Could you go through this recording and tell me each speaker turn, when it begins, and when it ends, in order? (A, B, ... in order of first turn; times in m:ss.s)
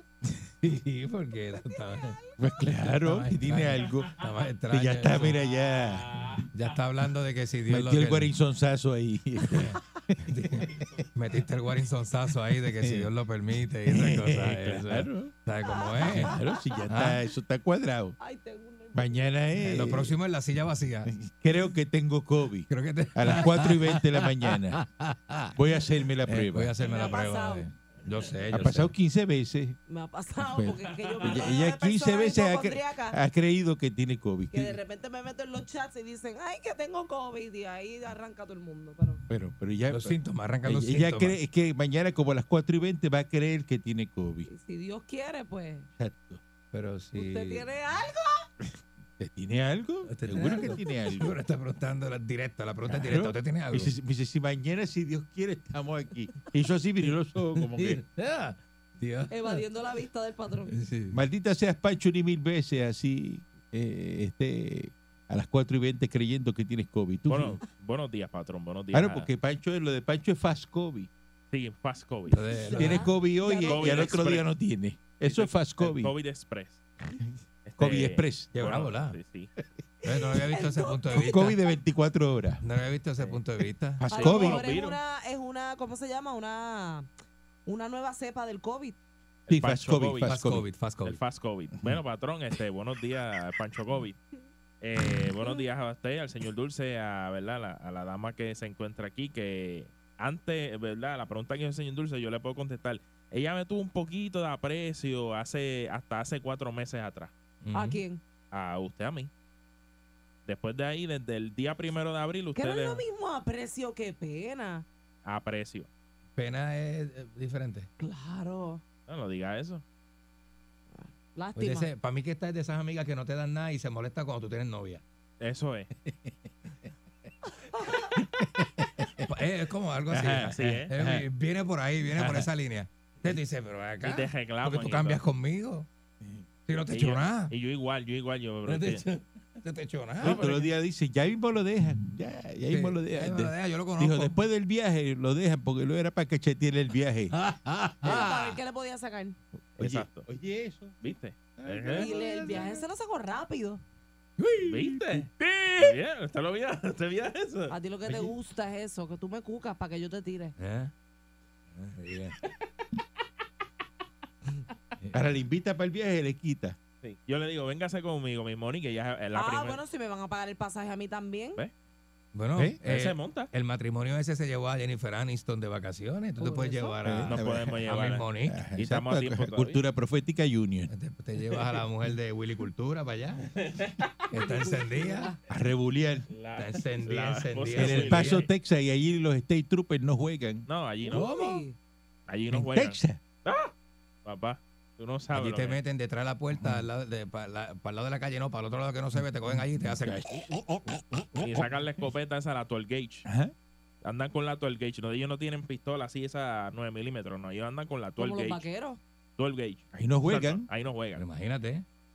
0:00.2-0:05.4 A
0:02.4-0:04.2 B
0:04.7-0:06.1 B
0:05.4-0:06.4 C
0:06.5-0:08.3 A
0:07.7-0:10.9 B
0:09.5-0:16.4 A
0:10.7-0:11.0 C
0:12.6-0:13.1 B
0:13.9-0:15.3 B
0:15.7-0:16.2 D
0:16.0-0:18.2 B
0:16.9-0:17.2 A
0:18.2-0:19.3 D
0:18.9-0:20.1 B
0:19.6-0:21.1 A
0:21.1-0:24.8 B
0:22.7-0:25.6 A
0:25.5-0:26.7 B
0:26.2-0:28.9 A
0:26.8-0:27.7 D
0:28.5-0:29.8 B
0:29.9-0:33.2 D
0:30.4-0:34.8 B
0:34.5-0:39.2 D
0:39.3-0:44.5 B
0:39.9-0:41.4 A
0:44.5-0:45.9 D
0:46.0-0:46.4 B
0:46.7-0:47.6 A
0:47.2-0:48.5 D
0:49.2-0:51.4 B
0:50.1-0:53.9 A
0:52.9-0:58.0 B
0:57.5-0:59.6 A
0:59.3-1:00.7 D
1:00.7-1:01.2 A
1:01.1-1:07.6 B
1:07.3-1:09.3 C
1:08.9-1:11.1 B
1:11.5-1:12.4 C
1:12.3-1:13.1 A
1:12.6-1:14.2 D
1:12.8-1:16.1 B
1:13.6-1:14.5 C
1:15.2-1:16.8 C
1:17.6-1:19.5 C
1:17.8-1:18.5 B
1:18.5-1:19.2 A
1:20.0-1:21.6 A
1:20.5-1:21.2 D
1:21.1-1:22.6 B
1:22.6-1:24.0 A
1:24.0-1:24.8 B
1:24.1-1:25.0 C
1:24.1-1:27.1 D
1:27.6-1:29.0 D
1:29.5-1:30.6 B
1:29.5-1:30.3 C
1:30.2-1:31.2 A
1:31.0-1:34.2 C
1:34.8-1:47.3 C
1:47.6-1:48.0 A
1:47.7-1:48.2 D
1:48.5-1:49.3 C
1:50.4-1:53.0 C
1:52.5-1:54.8 D
1:55.2-1:55.9 C
1:56.4-1:57.9 A
1:58.0-1:58.8 D
1:59.1-1:59.8 C
2:00.9-2:01.9 D
2:01.5-2:05.0 A
2:05.4-2:05.9 C
2:06.1-2:06.7 B
2:08.0-2:09.3 B
2:09.2-2:15.9 A
2:10.1-2:11.2 B
2:10.2-2:10.9 C
2:12.1-2:12.5 B
2:14.0-2:15.2 C
2:16.7-2:17.5 A
2:16.9-2:19.0 C
2:18.6-2:20.5 A
2:20.2-2:27.3 B
2:20.2-2:20.7 C
2:22.6-2:24.4 A
2:27.3-2:28.6 A
2:28.0-2:29.4 D
2:29.8-2:31.0 B
2:29.8-2:30.3 C
2:31.0-2:32.1 C
2:31.6-2:32.8 B
2:32.0-2:33.8 D
2:34.4-2:35.2 A
2:34.6-2:37.7 C
2:37.7-2:40.5 D
2:38.1-2:38.3 B
2:40.6-2:40.9 A
2:41.7-2:42.4 A
2:45.1-2:46.8 B
2:47.0-2:49.8 C
2:49.3-2:51.6 D
2:52.3-2:58.6 A
2:52.8-2:53.5 C
2:56.4-2:57.0 D
2:57.0-2:57.8 B
2:57.3-2:59.8 C
2:58.5-3:00.9 B
3:00.9-3:03.5 A
3:03.5-3:04.1 C
3:04.3-3:05.3 A
3:04.3-3:05.4 D
3:05.5-3:06.3 B
3:06.3-3:08.5 C
3:06.6-3:08.4 A
3:07.8-3:10.7 B
3:10.7-3:11.3 C
3:11.0-3:11.8 D
3:11.1-3:11.6 A
3:12.3-3:13.7 C
3:12.5-3:13.2 B
3:14.2-3:15.8 C
3:15.3-3:20.4 A
3:16.5-3:16.8 B
3:19.2-3:21.5 B
3:21.4-3:23.2 C
3:23.2-3:23.5 B
3:24.0-3:28.6 C
3:28.2-3:29.0 D
3:29.4-3:31.2 C
3:29.9-3:30.7 B
3:31.1-3:31.8 A